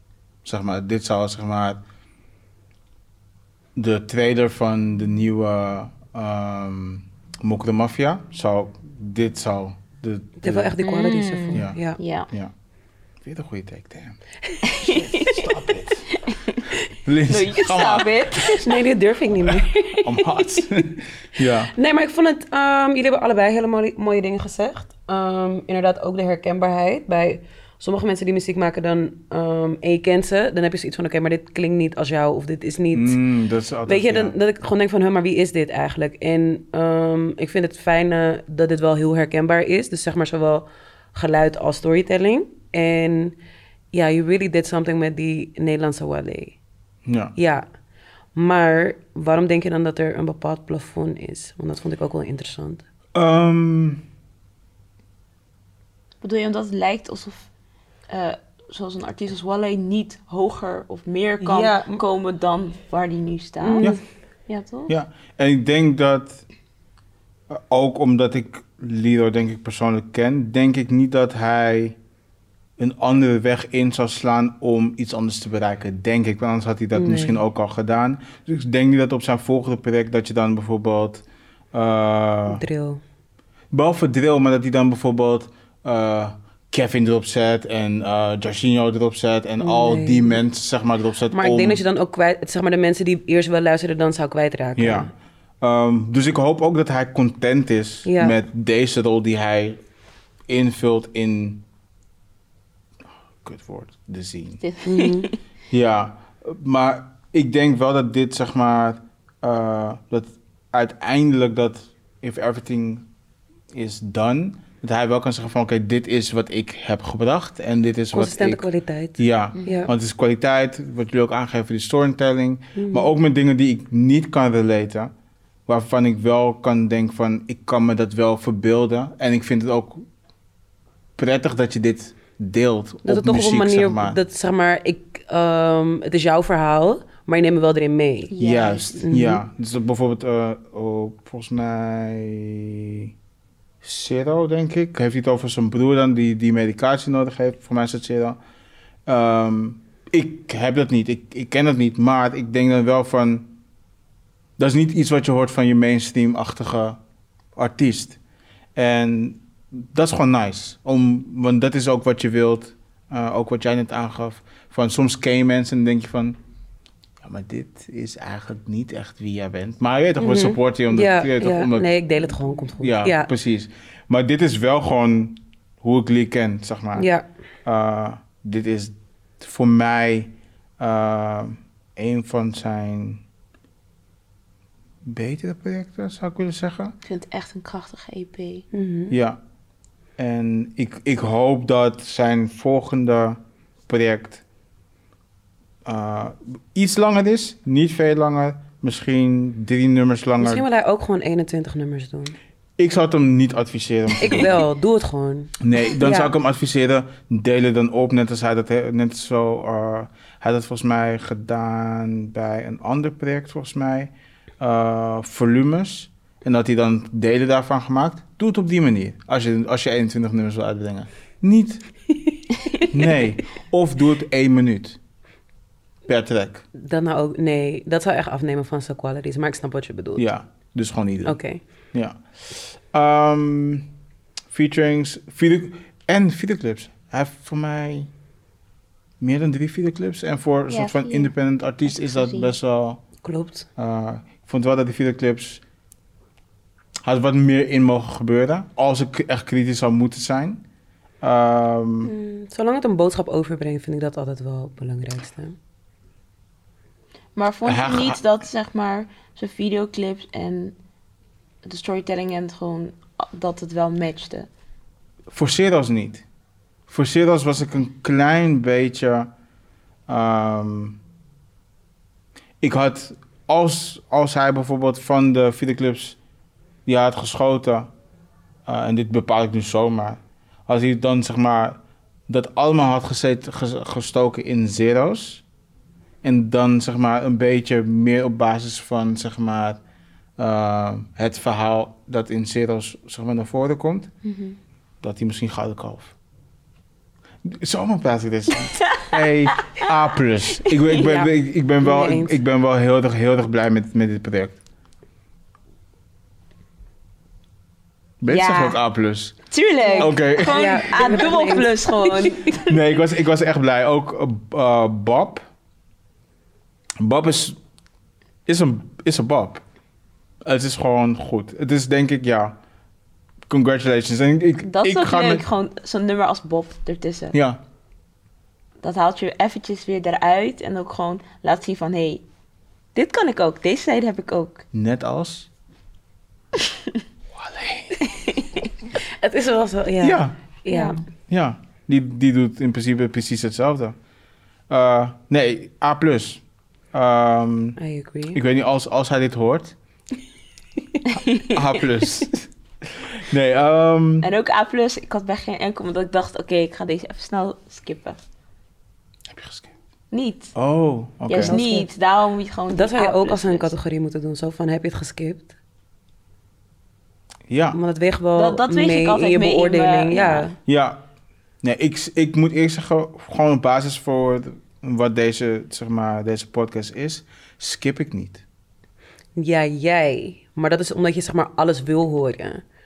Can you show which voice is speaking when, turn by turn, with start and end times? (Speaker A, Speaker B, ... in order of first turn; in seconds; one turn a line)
Speaker A: 0.4-1.8
Speaker A: 3.8-10.8
Speaker B: 10.4-12.0
Speaker C: 10.8-12.3
Speaker A: 11.5-12.5
Speaker A: 13.2-14.2
Speaker C: 14.6-15.5
Speaker A: 14.8-16.1
Speaker C: 16.1-16.6
Speaker A: 17.1-18.7
Speaker C: 17.3-18.7
Speaker B: 18.6-33.2
Speaker A: 20.0-21.7
Speaker A: 32.9-34.3
Speaker B: 33.9-43.4
Speaker B: 43.9-46.6
Speaker A: 47.1-47.4
Speaker B: 47.4-47.6
Speaker B: 48.4-52.8
Speaker A: 53.1-54.0
Speaker C: 56.2-57.5
Speaker C: 58.1-64.0
Speaker B: 61.4-62.0
Speaker B: 63.6-64.0
Speaker C: 64.5-64.9
Speaker A: 64.9-66.4
Speaker A: 67.5-72.0
Speaker A: 72.8-82.6
Speaker B: 76.9-77.4
Speaker B: 82.5-83.0
Speaker A: 83.7-91.8
Speaker B: 89.6-90.4
Speaker B: 91.3-95.1
Speaker A: 94.8-99.8
Speaker B: 98.1-98.3
Speaker A: 100.5-101.7
Speaker A: 103.4-104.6
Speaker C: 104.6-105.4
Speaker B: 104.8-105.3
Speaker A: 105.7-113.0
Speaker A: 113.7-118.7
Speaker B: 118.1-119.9
Speaker A: 119.2-125.1
Speaker C: 119.6-119.9
Speaker B: 122.8-123.1
Speaker A: 125.7-130.1
Speaker A: 131.2-134.2
Speaker B: 133.1-138.3
Speaker C: 138.3-139.0
Speaker A: 138.4-143.1
Speaker B: 139.0-139.4
Speaker A: 143.8-148.4
Speaker A: 149.1-153.5
Speaker A: 154.6-157.0
Speaker A: 157.6-158.2
Speaker A: 158.8-166.4
Speaker A: 167.2-171.9
Speaker B: 170.2-173.3
Speaker A: 172.8-177.1
Speaker B: 177.0-177.2
Speaker A: 177.7-183.2
Speaker A: 185.1-186.9
Speaker C: 187.0-188.7
Speaker B: 188.7-189.1
Speaker A: 189.1-189.4
Speaker A: 190.2-194.4
Speaker A: 195.8-200.7
Speaker B: 200.4-202.3
Speaker A: 202.8-204.6
Speaker B: 204.2-206.3
Speaker A: 205.6-221.8
Speaker A: 222.9-225.0
Speaker A: 226.1-226.6
Speaker B: 226.7-230.2
Speaker A: 230.2-231.4
Speaker B: 231.2-231.6
Speaker A: 231.9-233.9
Speaker A: 234.5-238.1
Speaker A: 239.2-243.0
Speaker C: 240.7-241.3
Speaker C: 241.9-242.5
Speaker B: 243.2-243.7
Speaker A: 243.8-245.6
Speaker A: 247.1-250.6
Speaker A: 251.2-252.1
Speaker B: 252.1-255.6
Speaker C: 257.4-260.8
Speaker A: 257.7-258.2
Speaker C: 261.6-264.5
Speaker A: 265.3-266.2
Speaker A: 266.9-269.3
Speaker A: 270.1-271.0
Speaker A: 272.6-276.2
Speaker A: 276.9-277.9
Speaker A: 278.7-285.4
Speaker A: 286.2-289.8
Speaker A: 290.4-294.1
Speaker C: 294.2-294.6
Speaker A: 295.0-296.1
Speaker A: 297.4-304.6
Speaker C: 298.8-299.9
Speaker C: 300.7-301.1
Speaker B: 300.9-302.4
Speaker A: 308.2-309.4
Speaker C: 308.3-308.8
Speaker C: 309.5-312.8
Speaker B: 309.9-312.4
Speaker A: 310.0-310.8
Speaker A: 312.7-315.4
Speaker A: 317.0-317.6
Speaker A: 318.5-319.6
Speaker A: 320.4-322.6
Speaker A: 323.5-325.4
Speaker C: 324.6-327.4
Speaker A: 327.3-327.6
Speaker C: 328.8-332.2
Speaker C: 332.9-334.6
Speaker A: 334.7-335.5
Speaker C: 336.6-336.9
Speaker A: 337.4-338.0
Speaker C: 338.0-338.7
Speaker B: 339.1-341.0
Speaker A: 340.0-340.4
Speaker C: 340.7-341.0
Speaker A: 341.3-343.9
Speaker A: 344.7-346.4
Speaker A: 346.9-347.8
Speaker B: 347.8-348.4
Speaker A: 348.3-349.8
Speaker C: 351.1-351.5
Speaker A: 351.1-354.3
Speaker C: 354.2-358.2
Speaker A: 359.3-359.7
Speaker C: 360.1-360.6
Speaker A: 360.6-361.6
Speaker C: 361.3-363.7
Speaker B: 361.3-361.9
Speaker B: 362.7-365.5
Speaker A: 367.5-367.8
Speaker B: 367.7-370.5
Speaker C: 368.4-370.6
Speaker A: 370.7-371.0
Speaker A: 371.6-378.4
Speaker B: 379.4-382.6